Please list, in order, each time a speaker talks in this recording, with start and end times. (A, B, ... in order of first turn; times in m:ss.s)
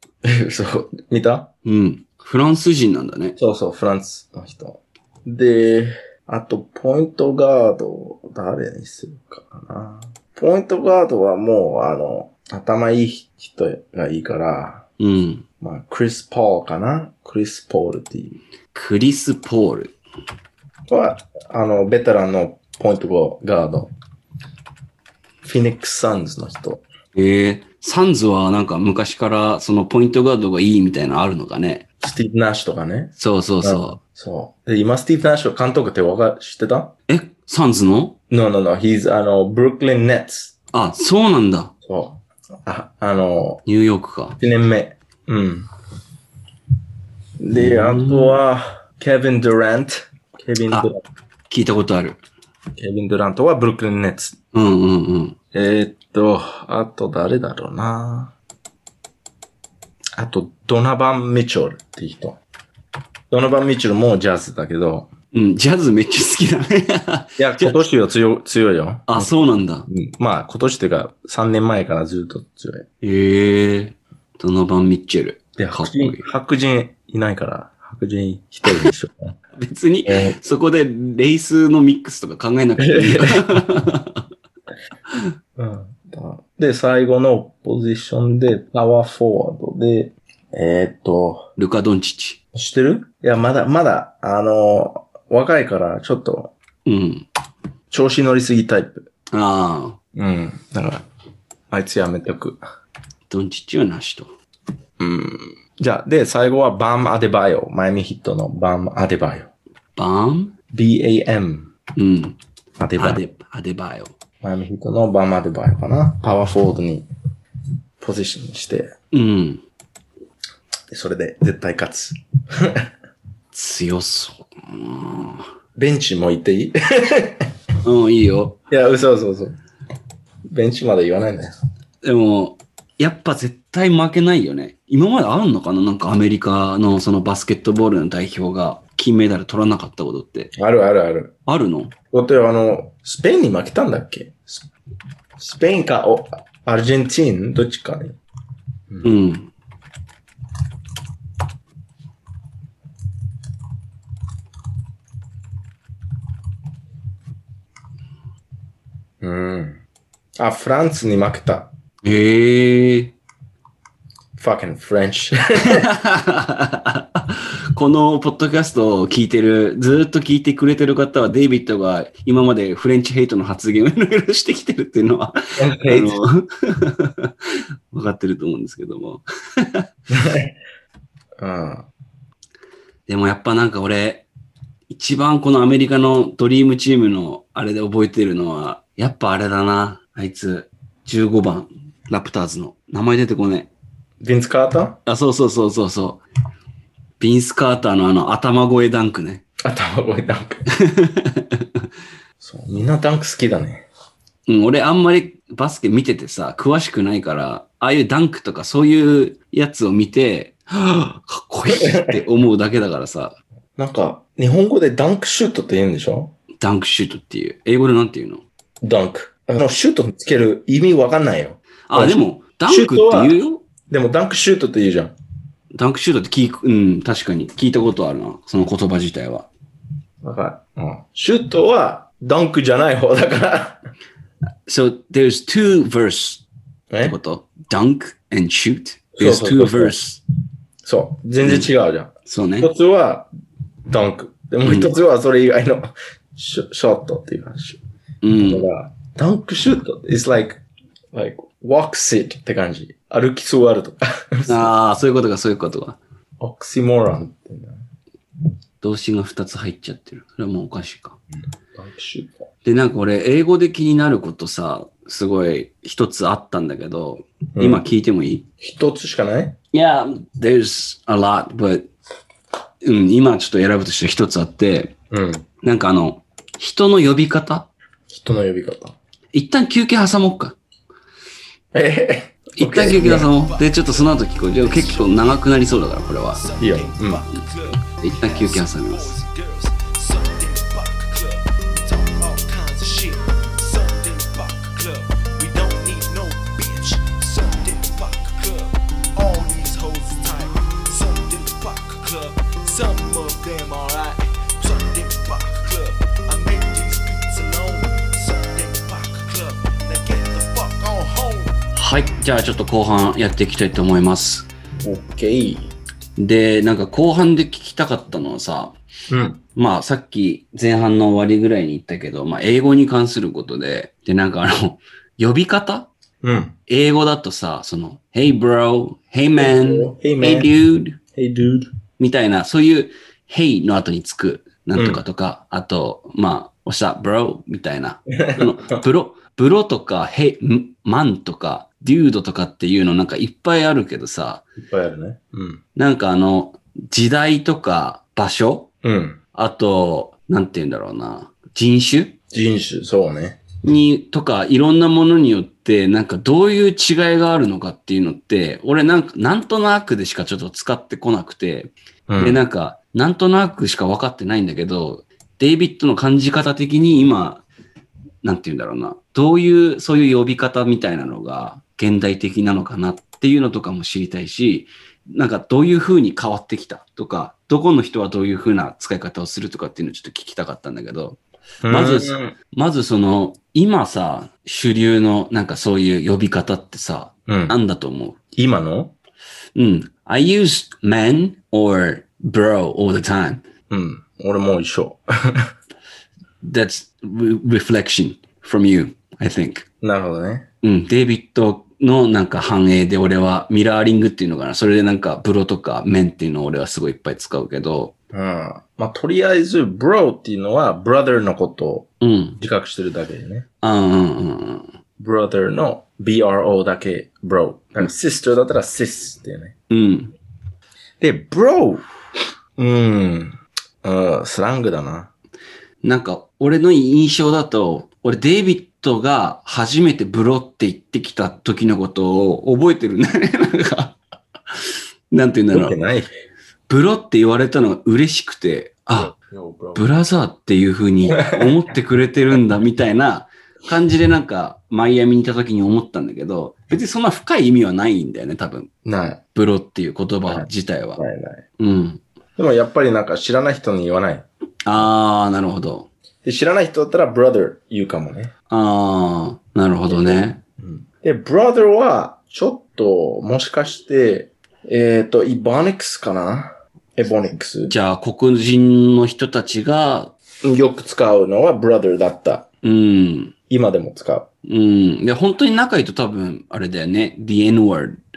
0:00.2-0:01.5 A
0:01.6-0:03.4 B
0:03.4-0:14.8 A
0:15.0-0:15.4 B
0:15.6-0:18.4 A
0:18.7-0:19.9 B
0:20.9-0:23.9 A
0:25.4-0:26.8 A
0:27.1-0:31.8 B
0:32.0-0:36.9 A
0:33.2-0:34.0 B
0:37.1-0:38.2 B
0:38.3-0:40.5 A
0:40.7-0:41.7 B
0:41.8-0:43.6 A
0:43.6-0:44.4 B
0:44.4-0:45.7 A
0:47.4-0:51.0 A
0:47.6-0:48.4 B
0:51.5-0:52.2 B
0:52.8-0:54.4 A
0:54.5-0:55.4 B
0:55.5-0:58.3 A
1:00.2-1:02.4 A
1:03.3-1:05.1 A
1:05.3-1:07.8 B
1:07.4-1:09.3 A
1:09.1-1:09.9 B
1:09.9-1:12.8 A
1:13.0-1:16.2 B
1:15.6-1:19.4 A
1:19.6-1:24.2 B
1:20.1-1:20.4 A
1:22.8-1:23.4 A
1:25.6-1:31.5 A
1:31.6-1:32.4 B
1:32.5-1:36.5 A
1:36.8-1:37.2 B
1:37.9-1:39.1 A
1:39.3-1:40.0 B
1:40.1-1:41.0 A
1:41.7-1:42.6 A
1:43.3-1:44.3 B
1:45.0-1:49.5 A
1:50.0-1:50.5 B
1:50.7-1:51.7 A
1:52.0-1:52.4 B
1:52.8-1:53.2 A
1:53.0-1:54.1 B
1:54.4-1:57.1 A
1:58.0-1:58.9 A
1:59.1-1:59.6 B
2:00.9-2:02.9 A
2:03.5-2:05.4 B
2:05.8-2:07.5 A
2:07.8-2:08.6 B
2:08.7-2:09.6 A
2:10.5-2:11.5 A
2:12.0-2:20.5 B
2:20.6-2:21.3 A
2:21.5-2:21.9 B
2:22.1-2:24.7 A
2:25.4-2:28.2 A
2:29.0-2:29.5 B
2:39.2-2:39.8 A
2:40.4-2:41.7 A
2:42.0-2:43.1 B
2:44.4-2:45.8 A
2:45.6-2:59.8 B
2:55.6-2:56.2 A
3:00.1-3:00.5 A
3:01.4-3:01.8 A
3:03.1-3:04.3 B
3:04.9-3:13.7 B
3:14.2-3:15.0 A
3:15.0-3:16.2 B
3:17.2-3:19.4 B
3:19.6-3:20.6 A
3:20.7-3:21.7 B
3:22.4-3:23.8 A
3:24.5-3:33.3 B
3:31.7-3:32.2 A
3:33.8-3:36.3 A
3:36.6-3:38.4 B
3:38.8-3:43.4 A
3:41.9-3:43.6 B
3:43.9-3:45.1 A
3:45.7-3:49.5 B
3:50.2-3:53.8 A
3:54.7-3:56.4 B
3:56.9-3:57.2 A
3:57.0-4:00.2 B
3:59.2-4:00.0 A
4:00.8-4:03.3 A
4:01.4-4:01.7 B
4:02.2-4:02.7 B
4:03.9-4:07.8 A
4:04.6-4:04.9 B
4:08.2-4:08.7 B
4:08.4-4:10.6 A
4:11.1-4:14.7 A
4:14.5-4:16.0 B
4:16.4-4:17.8 A
4:18.8-4:21.2 B
4:21.7-4:22.4 A
4:22.6-4:28.4 B
4:27.6-4:27.8 A
4:28.6-4:29.6 A
4:29.7-4:31.9 B
4:32.8-4:34.9 B
4:35.1-4:35.4 A
4:35.6-4:37.7 B
4:38.1-4:39.0 A
4:39.3-4:40.6 B
4:41.7-4:43.3 A
4:42.6-4:46.4 B
4:43.2-4:45.4 C
4:46.3-5:11.5 C
4:46.6-4:47.3 A
4:48.0-4:49.2 B
5:11.7-5:14.5 B
5:14.8-5:15.7 A
5:16.2-5:18.7 B
5:19.1-5:19.4 A
5:19.6-5:25.9 B
5:26.2-5:26.5 A
5:26.7-5:31.0 B
5:29.4-5:30.5 A
5:31.1-5:31.7 A
5:32.0-5:44.4 B
5:34.8-5:35.0 A
5:38.2-5:38.8 A
5:44.6-5:45.6 A
5:45.7-5:48.7 B
5:48.8-5:49.2 A
5:49.3-5:52.1 B
5:52.3-5:53.4 A
5:53.6-6:07.4 B
6:02.1-6:02.4 A
6:08.2-6:28.2 B
6:21.6-6:22.3 A
6:27.3-6:27.6 A
6:28.3-6:28.9 A
6:29.5-6:33.4 B
6:33.7-6:35.5 A
6:36.4-6:39.6 B
6:39.8-6:40.4 A
6:40.6-6:47.9 B
6:48.1-6:53.4 A
6:52.0-6:52.4 B
6:53.6-6:54.7 B
6:55.0-6:59.5 A
6:59.7-7:00.1 B
7:01.0-7:01.8 A
7:02.6-7:05.1 A
7:05.8-7:14.0 B
7:15.1-7:15.8 B
7:15.5-7:16.1 A
7:16.7-7:19.2 B
7:19.0-7:19.8 A
7:19.7-7:28.7 B
7:21.2-7:21.5 A
7:28.8-7:29.2 A
7:29.3-7:31.0 B
7:30.3-7:31.4 A
7:31.6-7:32.0 B
7:32.4-7:34.9 A
7:34.6-7:35.9 B
7:36.2-7:38.3 A
7:38.5-7:40.4 B
7:39.9-7:47.7 A
7:47.7-7:50.1 B
7:50.4-7:52.5 A
7:52.6-7:53.3 B
7:53.5-7:54.3 A
7:54.4-7:58.0 B